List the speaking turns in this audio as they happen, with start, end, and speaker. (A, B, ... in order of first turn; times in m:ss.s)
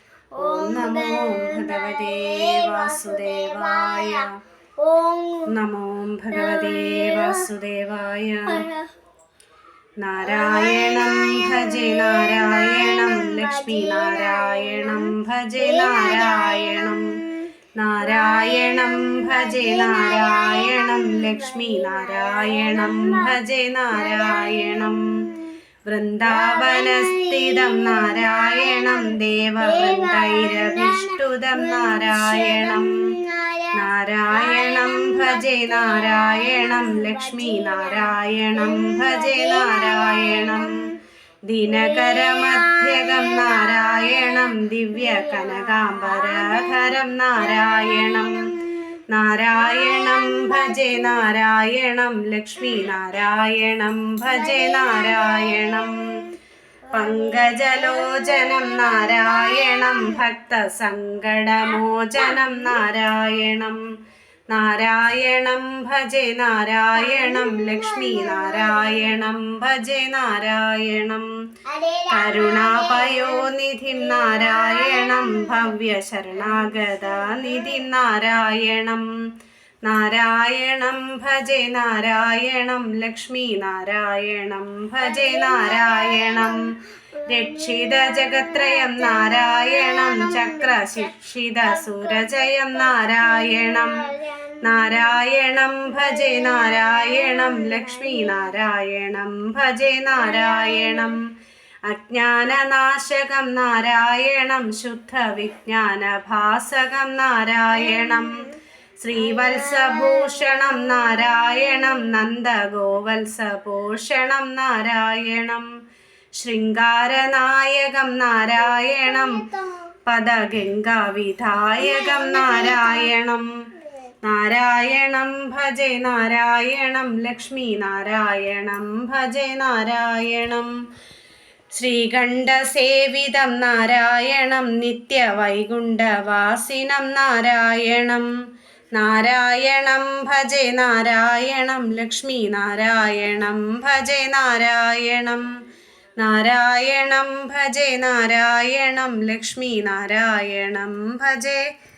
0:00.3-0:05.5 A
0:00.4-0:04.4 B
0:05.5-0:08.7 B
0:06.3-0:07.5 A
0:08.5-0:08.9 A
0:10.0-0:17.2 B
0:10.2-0:23.4 A
0:17.8-0:25.3 B
0:23.9-0:25.6 A
0:25.9-0:33.0 B
0:26.2-0:33.8 A
0:33.7-0:40.8 B
0:34.3-0:40.9 A
0:41.5-0:48.5 B
0:41.7-0:49.0 A
0:49.1-0:56.1 B
0:49.5-0:51.3 A
0:52.6-0:52.9 A
0:54.2-0:56.4 A
0:56.9-1:00.2 A
0:56.9-1:03.8 B
1:01.6-1:02.8 A
1:04.5-1:11.3 B
1:07.0-1:09.2 A
1:11.6-1:15.8 A
1:12.1-1:19.1 B
1:16.4-1:17.9 A
1:19.8-1:26.7 B
1:25.0-1:35.2 A
1:27.3-1:41.2 B
1:35.9-1:38.6 A
1:40.1-1:41.2 A
1:41.9-1:55.7 B
1:47.7-1:48.5 A
1:49.1-1:52.2 A
1:56.4-1:59.4 B
1:59.0-1:59.9 A
2:00.1-2:03.5 B
2:01.8-2:03.1 A
2:04.2-2:10.7 B
2:11.8-2:18.3 B
2:19.0-2:25.5 B
2:26.2-2:31.7 B